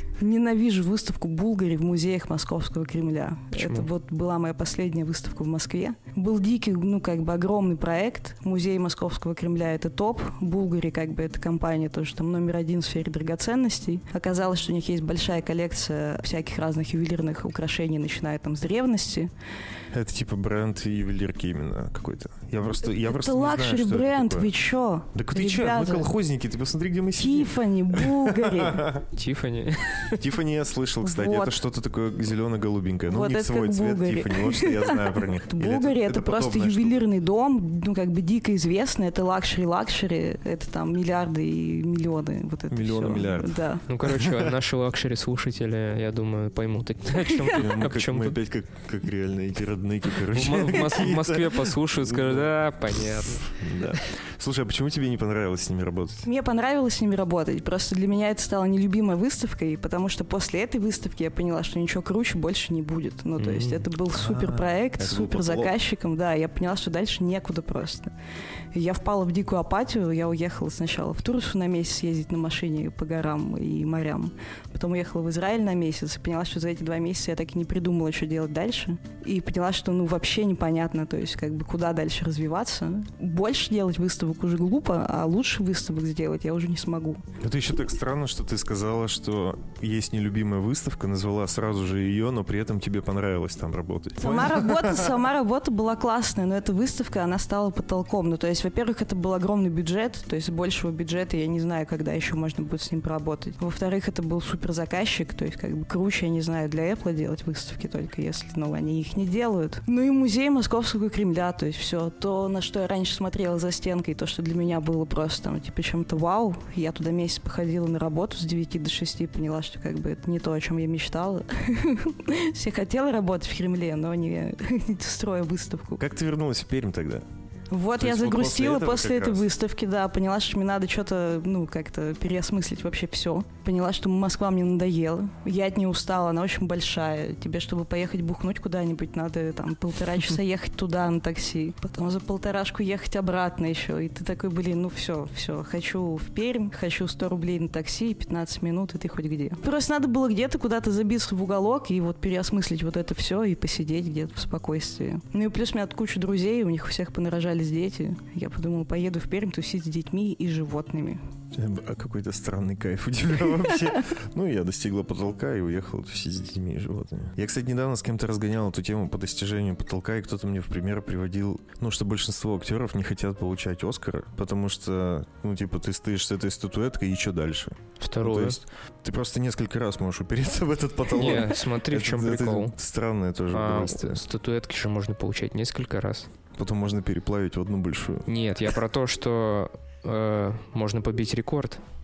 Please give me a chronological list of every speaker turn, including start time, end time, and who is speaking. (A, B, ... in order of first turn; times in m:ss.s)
0:00.2-0:19.3 A
0:03.6-0:03.9 B
0:19.9-0:24.5 C
0:22.9-0:26.1 A
0:25.1-0:29.1 C
0:27.2-0:28.9 A
0:29.2-0:30.2 B
0:30.1-0:37.0 C
0:31.0-0:31.6 A
0:33.1-0:43.9 A
0:42.7-0:44.5 C
0:43.9-0:48.4 B
0:47.4-0:56.3 C
0:50.3-0:54.0 B
0:56.2-1:08.1 A
1:03.4-1:03.9 B
1:04.1-1:05.7 C
1:08.7-1:27.2 A
1:27.4-1:35.2 C
1:34.2-2:06.0 A
2:06.0-2:07.2 C
2:07.7-2:41.2 A
2:08.0-2:09.5 C
2:41.5-3:04.2 C
2:58.0-2:58.6 B
3:01.2-3:02.7 B
3:03.5-3:06.3 B
3:06.6-3:08.3 C
3:08.3-3:11.8 B